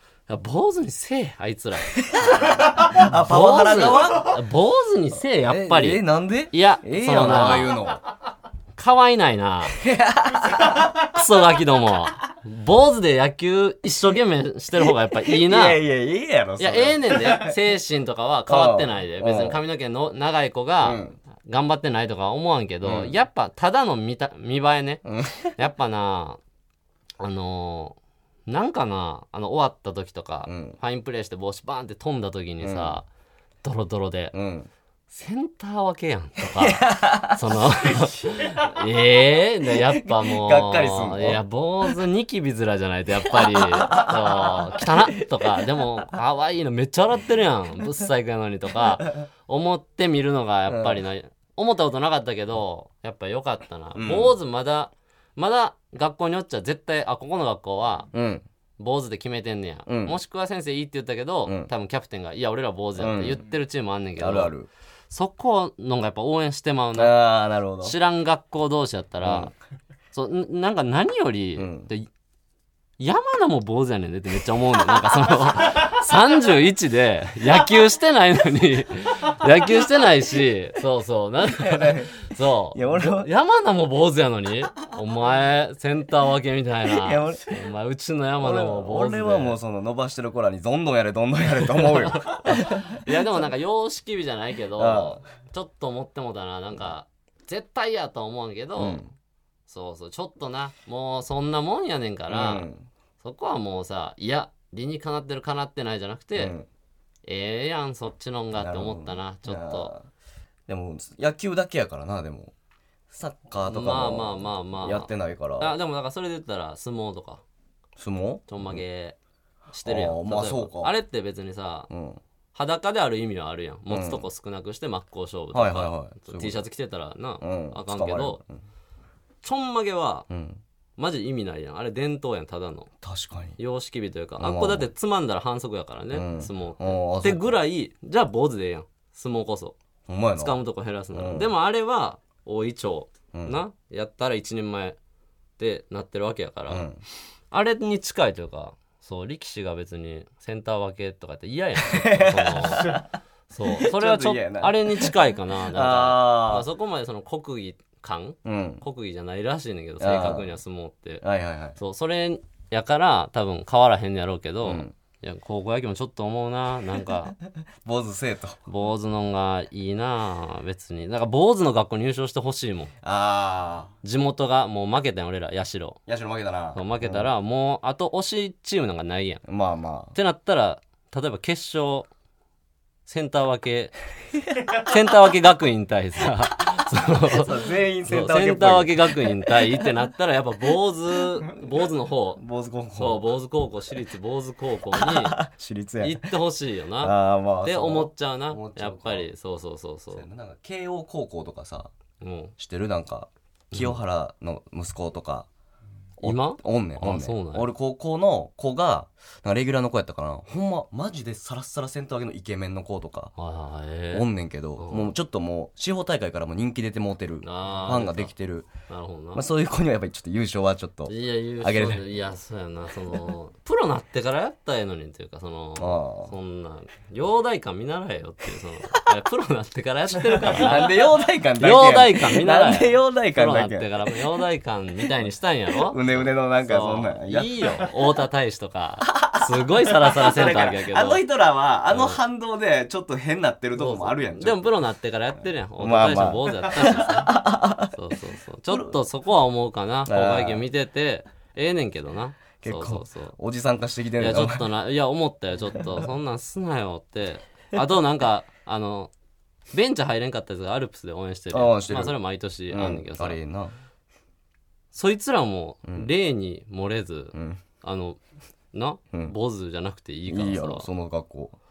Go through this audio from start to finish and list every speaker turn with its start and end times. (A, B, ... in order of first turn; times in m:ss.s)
0:00.3-0:07.8 A
0:02.0-0:04.4 B
0:05.4-0:08.0 B
0:08.7-0:09.8 A
0:09.8-0:11.0 B
0:11.0-0:15.8 A
0:14.8-0:17.6 B
0:16.6-0:25.0 A
0:18.5-0:19.6 B
0:20.8-0:21.2 B
0:22.8-0:23.1 B
0:25.0-0:25.5 B
0:25.6-0:26.4 A
0:27.2-0:33.0 A
0:30.4-0:30.8 B
0:32.6-0:33.0 B
0:33.6-0:34.3 A
0:34.3-0:34.7 B
0:35.1-0:58.1 A
0:36.4-0:38.9 B
0:39.6-0:42.0 B
0:43.3-0:45.6 B
0:50.7-0:51.0 B
0:53.9-0:54.3 B
0:58.1-0:58.4 B
0:58.8-1:04.5 A
0:59.8-1:00.2 B
1:01.4-1:01.7 B
1:03.0-1:03.4 B
1:04.2-1:04.7 B
1:05.1-1:07.2 A
1:06.9-1:08.0 B
1:07.8-1:09.5 A
1:09.2-1:09.5 B
1:10.1-1:12.1 A
1:11.6-1:11.9 B
1:13.0-1:29.6 A
1:21.4-1:22.2 B
1:22.7-1:23.3 B
1:26.8-1:27.6 B
1:28.4-1:33.0 B
1:31.7-1:39.0 A
1:34.8-1:35.2 B
1:38.8-1:39.1 B
1:39.7-1:42.7 A
1:42.3-1:42.8 B
1:43.2-1:46.5 A
1:46.4-1:46.7 B
1:47.2-1:49.9 A
1:48.5-1:50.1 B
1:50.7-1:52.5 B
1:53.1-1:55.7 B
1:53.7-1:57.4 A
1:58.0-1:58.8 B
1:58.5-1:59.2 A
1:59.7-2:01.9 A
1:59.8-2:00.9 B
2:01.9-2:02.2 B
2:02.5-2:08.4 A
2:03.9-2:04.2 B
2:05.5-2:06.6 B
2:07.4-2:08.6 B
2:09.4-2:10.2 A
2:10.3-2:10.6 B
2:11.0-2:12.9 A
2:13.0-2:13.6 B
2:13.6-2:19.7 A
2:14.4-2:14.9 B
2:16.1-2:17.6 B
2:20.1-2:20.6 B
2:20.4-2:25.0 A
2:21.1-2:21.5 B
2:25.6-2:26.9 A
2:26.7-2:27.0 B
2:27.5-2:41.2 A
2:31.8-2:33.0 B
2:33.7-2:35.1 B
2:35.7-2:36.6 B
2:38.4-2:38.8 B
2:40.0-2:40.5 B
2:41.2-2:41.8 B
2:41.8-2:47.3 A
2:44.6-2:44.9 B
2:47.8-2:48.6 B
2:48.6-2:52.9 A
2:53.0-2:53.9 B
2:54.0-2:56.0 A
2:56.1-2:57.3 B
2:56.7-2:59.4 A
2:59.4-3:00.1 B
3:00.1-3:02.1 A
3:03.0-3:03.9 A
3:04.8-3:07.5 A
3:07.3-3:09.8 B
3:08.1-3:12.4 A
3:12.4-3:13.3 B
3:13.0-3:15.4 A
3:14.9-3:16.2 B
3:16.0-3:20.3 A
3:17.0-3:19.3 B
3:20.1-3:21.9 B
3:22.2-3:22.5 A
3:22.6-3:25.5 B
3:23.7-3:24.0 A
3:26.2-3:33.3 B
3:26.2-3:27.7 A
3:33.4-3:35.2 A
3:34.1-3:38.7 B
3:37.4-3:38.3 A
3:38.9-3:39.4 A
3:39.3-3:42.0 B
3:41.1-3:51.0 A
3:45.8-3:46.3 B
3:50.3-3:53.9 B
3:51.6-4:01.2 A
3:55.8-3:57.8 B
3:59.1-4:04.7 B
4:01.9-4:02.2 A
4:03.7-4:07.4 A
4:05.8-4:07.9 B
4:07.9-4:13.4 A
4:08.7-4:09.0 B
4:10.0-4:10.6 B
4:12.6-4:14.7 B
4:14.2-4:19.1 A
4:19.7-4:23.4 A
4:21.5-4:22.2 B
4:22.7-4:23.7 B
4:24.9-4:28.2 A
4:27.3-4:27.6 B
4:28.7-4:30.9 A
4:30.3-4:31.6 B